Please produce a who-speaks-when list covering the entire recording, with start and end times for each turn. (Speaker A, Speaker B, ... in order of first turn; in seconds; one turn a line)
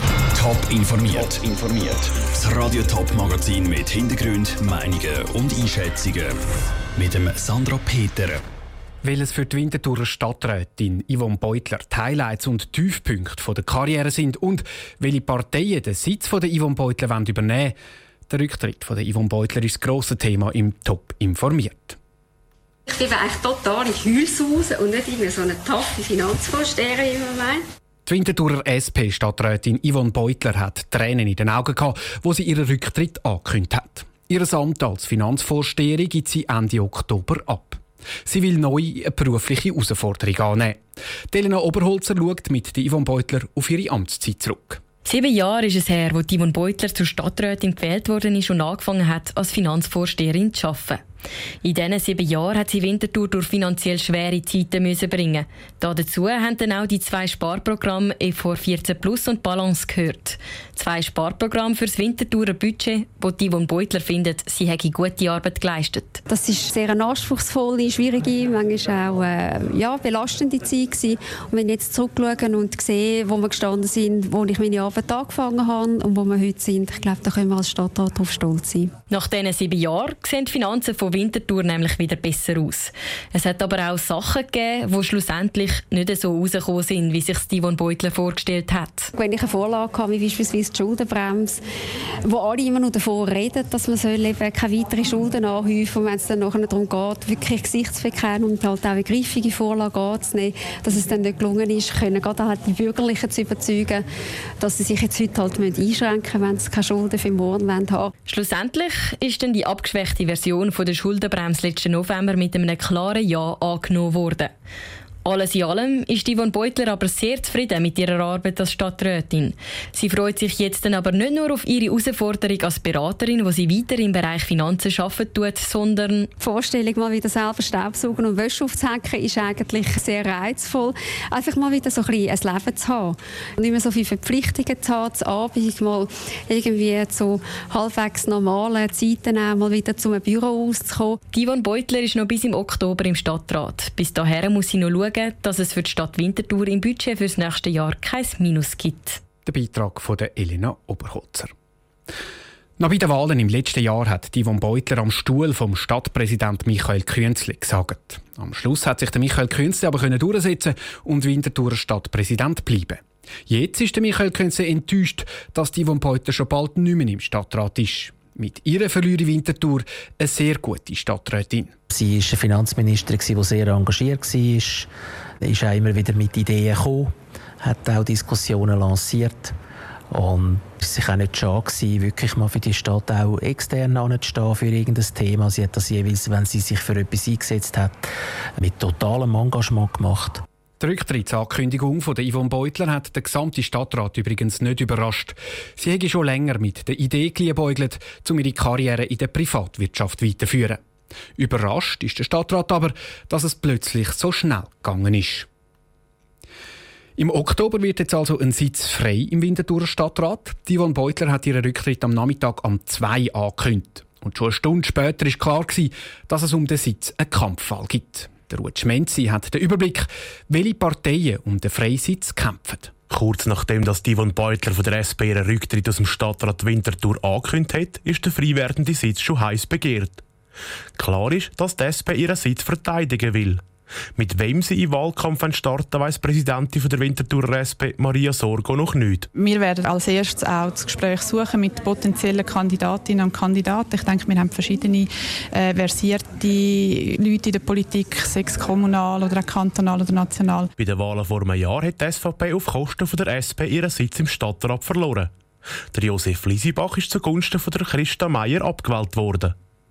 Speaker A: 0.3-6.4
Speaker A: 7.0-8.4
Speaker B: 9.0-17.8
Speaker B: 18.3-22.0
Speaker C: 22.9-27.6
Speaker B: 28.1-44.8
Speaker D: 45.0-51.0
Speaker D: 51.6-66.2
Speaker C: 66.3-78.9
Speaker D: 79.1-89.1
Speaker C: 89.2-91.6
Speaker C: 92.3-104.0
Speaker C: 104.6-108.1
Speaker D: 108.3-114.5
Speaker D: 115.2-126.3
Speaker C: 126.4-141.2
Speaker D: 141.3-149.2
Speaker B: 149.4-151.5
Speaker B: 152.8-171.8
Speaker E: 171.9-174.9
Speaker E: 175.4-179.5
Speaker E: 180.1-190.4
Speaker B: 190.8-200.8
Speaker B: 201.4-205.5
Speaker B: 207.2-222.9
Speaker F: 223.1-230.2
Speaker F: 231.0-233.6
Speaker F: 234.2-239.3
Speaker G: 239.3-250.7
Speaker F: 250.8-255.3
Speaker F: 255.9-259.6